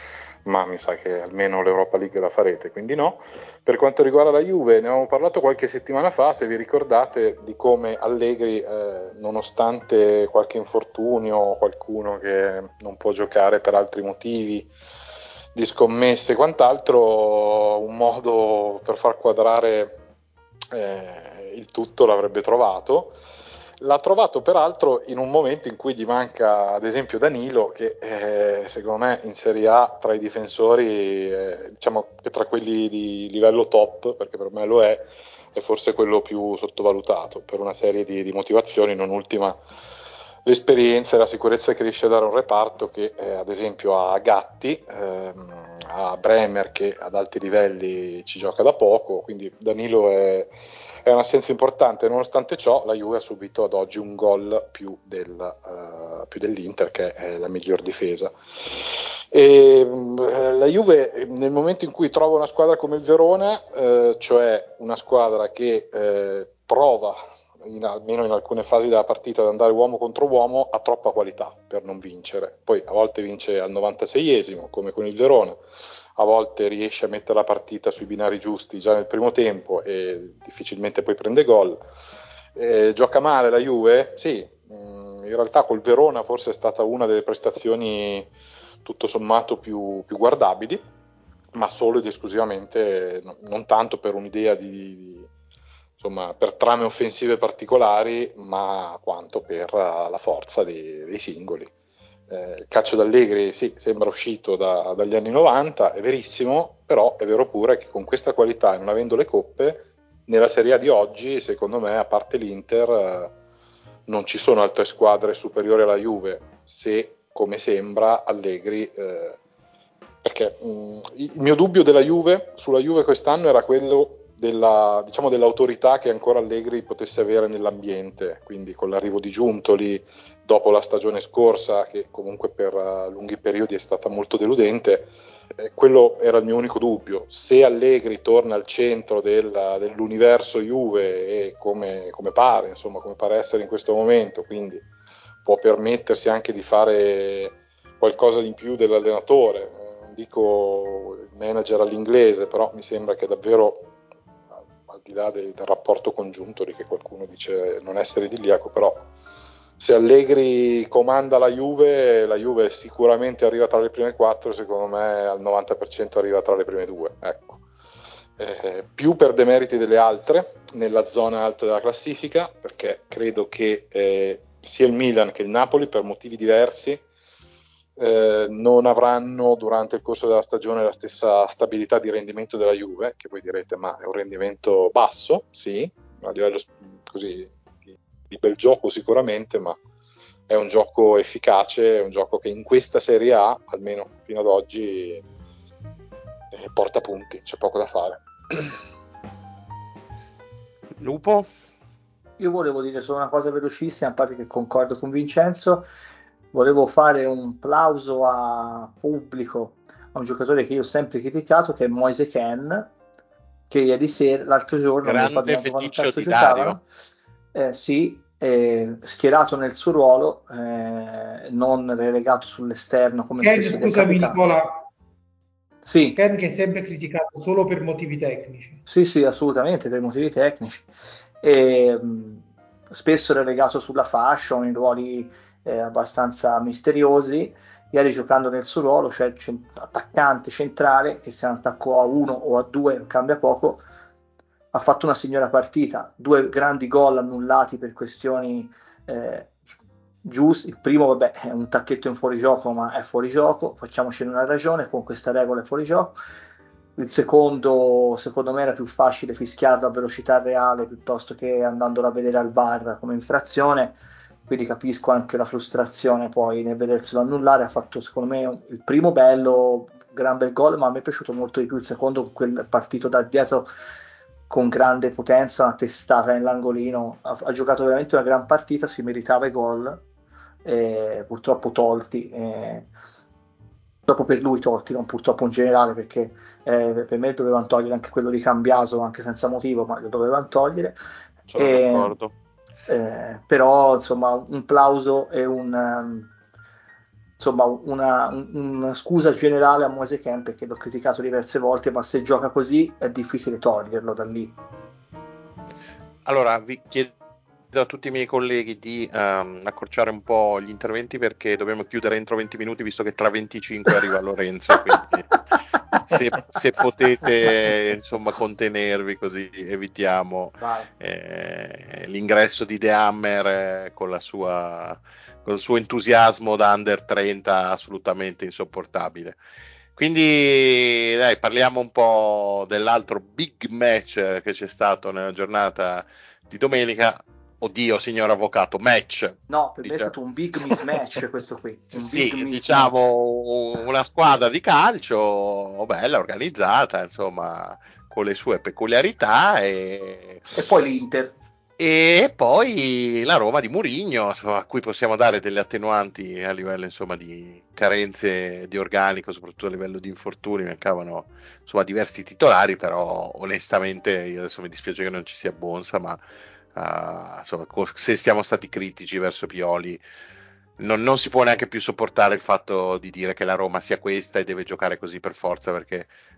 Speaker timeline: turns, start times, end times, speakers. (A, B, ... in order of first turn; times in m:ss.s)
0:00.4-0:14.7 A
0:15.6-0:20.0 A
0:20.7-0:23.2 A
0:23.8-0:39.6 A
0:40.4-0:50.5 A
0:51.0-1:15.6 A
1:16.2-1:21.9 A
1:22.6-1:28.3 A
1:28.8-1:30.8 A
1:31.5-1:35.3 A
1:36.0-1:41.7 A
1:42.3-1:53.3 A
1:54.1-1:59.4 A
2:00.2-2:24.8 A
2:25.4-2:33.9 A
2:34.9-2:39.1 A
2:39.8-2:47.6 A
2:48.4-2:57.0 A
2:58.0-3:07.7 A
3:08.3-3:09.8 A
3:10.5-3:15.2 A
3:16.5-3:18.7 A
3:21.0-3:21.5 B
3:22.4-3:25.9 C
3:26.5-3:32.9 C
3:33.7-3:36.8 C
3:35.0-3:36.8 B
3:37.5-3:44.4 C
3:43.4-3:44.7 D
3:45.9-3:46.2 C
3:46.2-3:48.8 D
3:48.9-3:50.9 C
3:51.4-4:03.8 C
4:04.7-4:09.6 C
4:10.2-4:16.2 C
4:17.0-4:33.7 C
4:34.5-4:40.0 C
4:40.6-4:42.9 C
4:44.1-4:51.0 C
4:51.5-4:52.3 B
4:51.6-4:52.2 C
4:52.9-4:56.3 C
4:57.4-5:04.6 C
5:06.3-5:07.1 B
5:07.7-5:15.3 B
5:16.0-5:29.4 B
5:20.6-5:20.9 C
5:30.0-5:40.1 B
5:39.5-5:42.9 C
5:41.9-5:50.6 B
5:50.5-5:51.4 C
5:51.8-6:06.2 B
6:06.8-6:10.0 B
6:10.8-6:16.1 B